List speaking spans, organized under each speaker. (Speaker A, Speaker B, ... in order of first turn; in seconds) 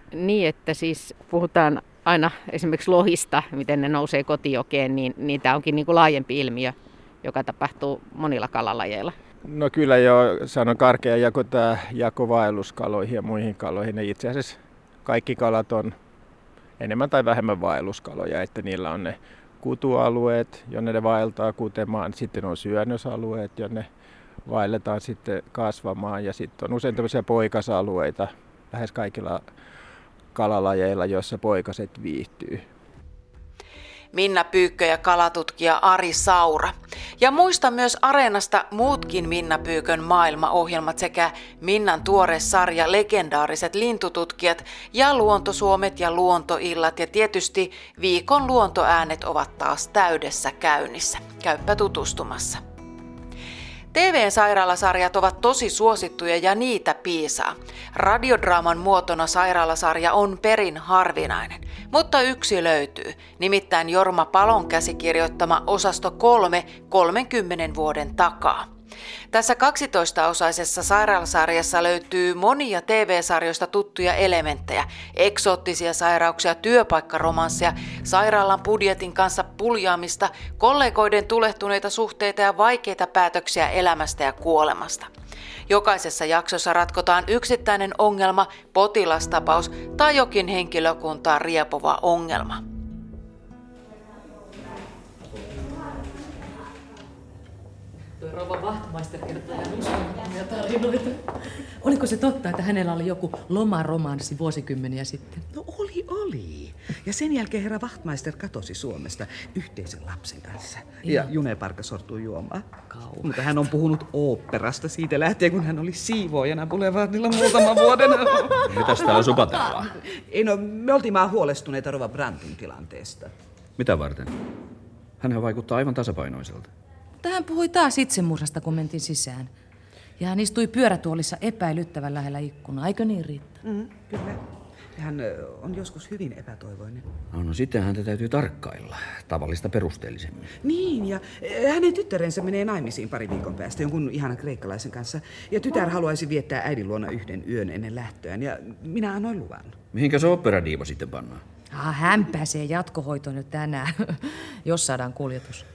Speaker A: 0.1-9.1
Speaker B: 9.4-15.9, 16.8-23.8, 24.4-29.4, 30.3-32.6
Speaker C: 34.1-52.6, 53.9-68.7, 69.3-85.1, 85.7-92.6
Speaker D: 98.2-105.4, 111.0-111.3, 112.9-113.4, 127.2-129.5, 130.2-133.6, 151.7-155.6
Speaker E: 105.5-112.6, 113.2-119.4, 120.3-123.3, 133.6-134.4, 135.0-137.0, 140.6-149.7
Speaker F: 118.7-119.9, 123.8-124.3, 125.2-126.7, 137.3-140.5, 149.9-151.4